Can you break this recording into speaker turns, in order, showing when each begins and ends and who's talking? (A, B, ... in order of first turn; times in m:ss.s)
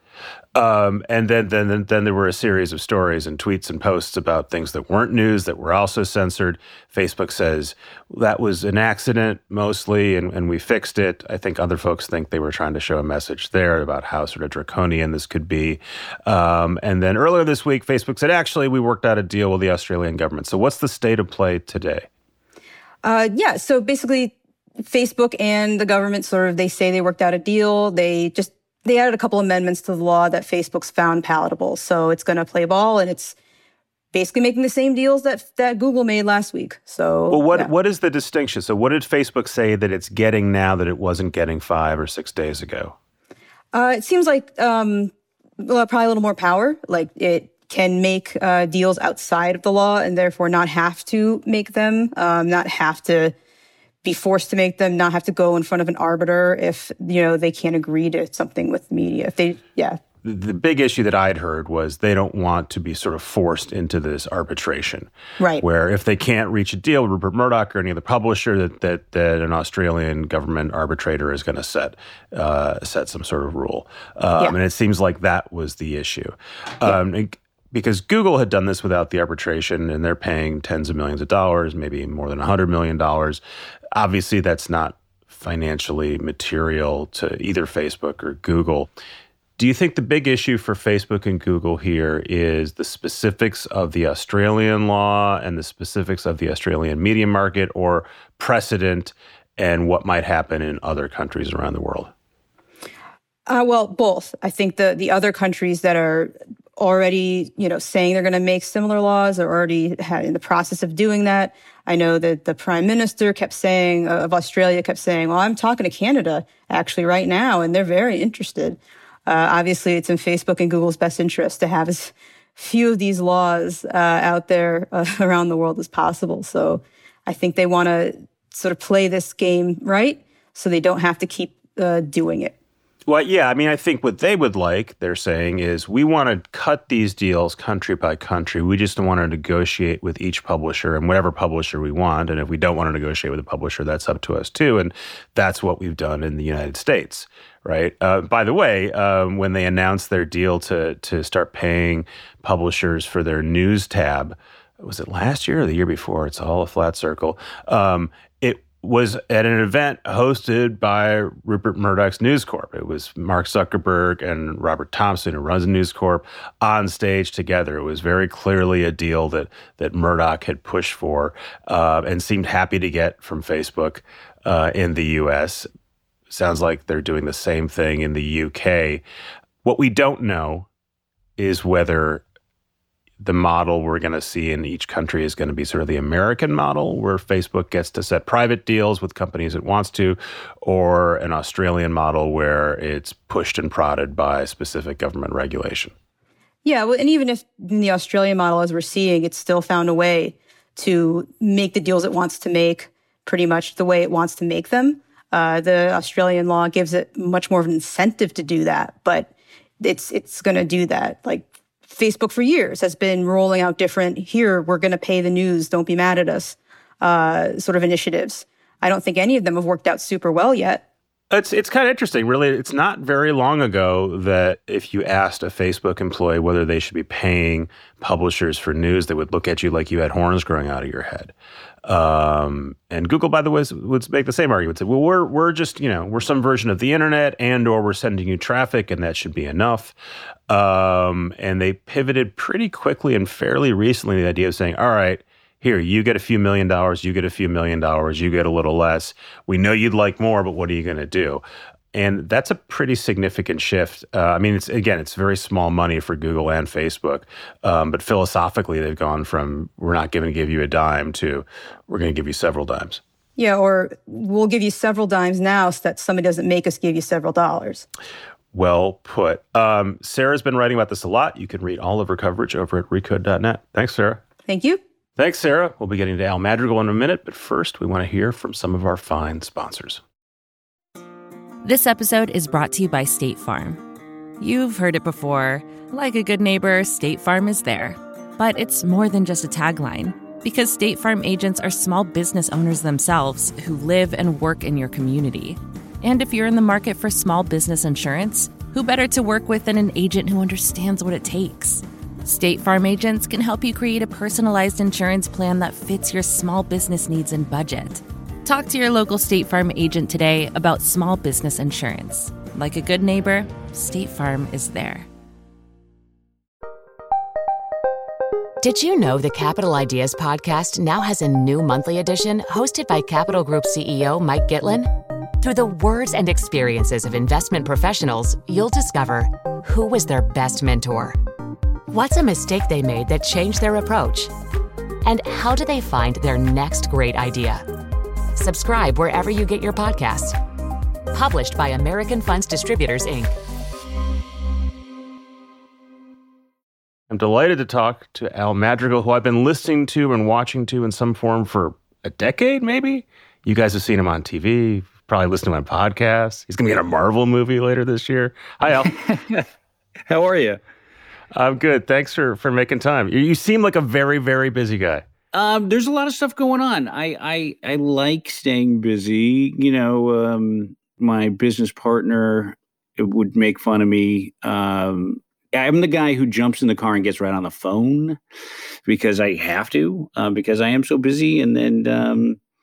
0:00.5-0:22.1 A
0:23.0-0:33.4 B
0:34.1-0:37.7 B
0:37.3-0:42.9 A
0:43.7-0:53.3 B
0:54.0-1:00.0 B
1:00.2-1:05.1 A
1:05.6-1:23.4 A
1:23.9-1:28.9 A
1:29.6-1:42.1 A
1:43.5-2:12.5 B
2:13.1-2:55.7 A
2:56.3-2:59.0 A
2:59.6-3:00.7 A
3:01.4-3:02.2 A
3:03.2-3:15.9 A
3:16.6-3:40.8 B
3:41.3-3:51.3 A
3:51.8-3:59.9 A
4:00.5-4:11.4 A
4:11.9-4:23.0 A
4:23.4-4:27.8 B
4:28.5-4:34.2 A
4:34.5-4:34.8 B
4:35.2-4:40.0 A
4:41.6-4:43.8 C
4:44.4-5:15.1 C
5:18.6-5:24.9 D
5:25.4-5:31.2 D
5:31.9-5:34.3 D
5:35.0-5:37.6 D
5:38.4-5:40.4 D
5:41.1-5:43.3 D
5:47.1-5:58.9 A
5:58.6-5:59.4 E
6:00.1-6:00.6 E
6:01.3-6:05.0 A
6:05.3-6:18.2 E
6:18.8-6:22.4 E